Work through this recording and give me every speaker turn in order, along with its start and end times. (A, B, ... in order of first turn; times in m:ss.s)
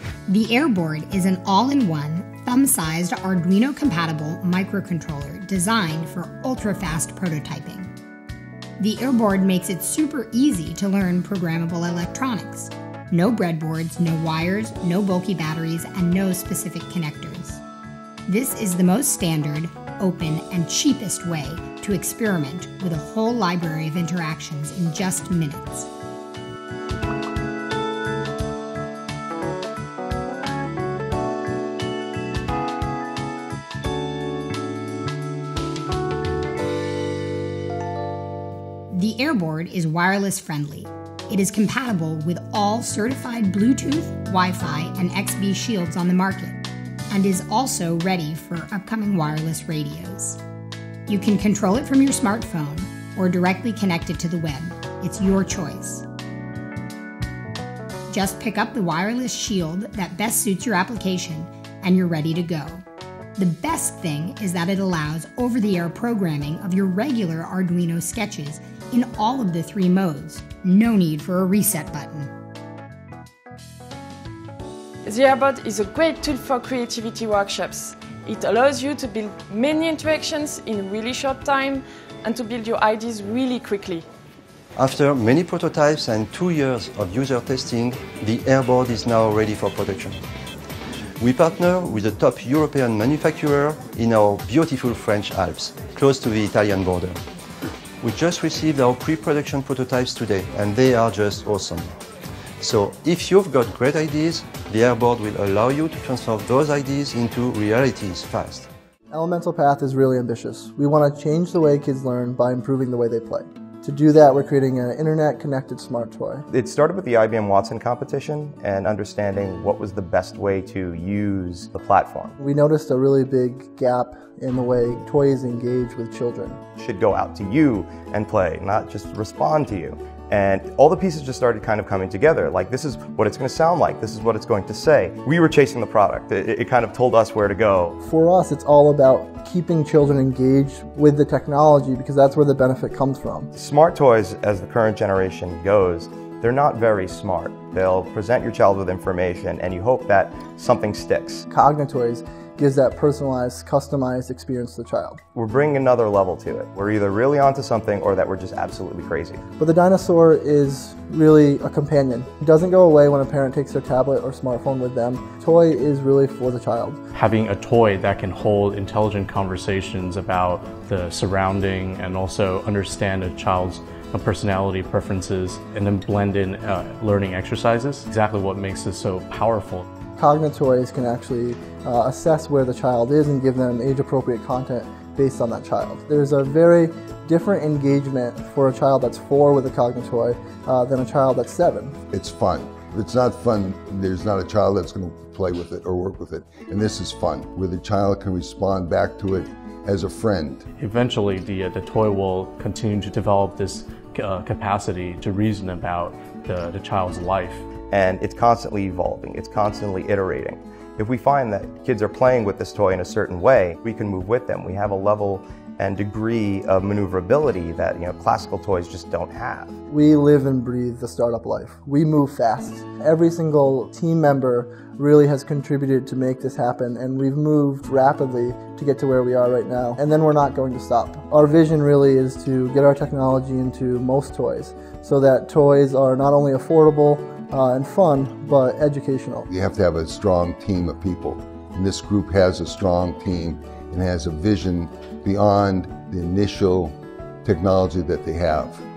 0:00.3-0:07.9 A
0:08.8-0:17.6 A
0:18.3-0:25.9 A
0:38.9-0:50.4 A
0:51.1-0:56.1 A
0:58.1-1:02.8 A
1:03.4-1:12.3 A
1:15.1-1:24.0 B
1:24.8-1:30.2 C
1:31.2-1:37.2 C
1:38.0-1:41.9 C
1:42.6-1:48.7 C
1:49.1-1:56.4 D
1:56.5-2:02.3 E
2:02.4-2:06.6 D
2:06.8-2:18.0 E
2:18.0-2:23.5 D
2:23.5-2:31.5 E
2:31.5-2:35.2 D
2:35.3-2:39.4 E
2:39.6-2:47.0 D
2:47.1-2:59.8 F
3:00.2-3:12.0 D
3:12.1-3:20.6 G
3:20.8-3:27.6 F
3:27.9-3:39.7 E
3:39.9-3:59.5 D
3:59.5-4:08.8 G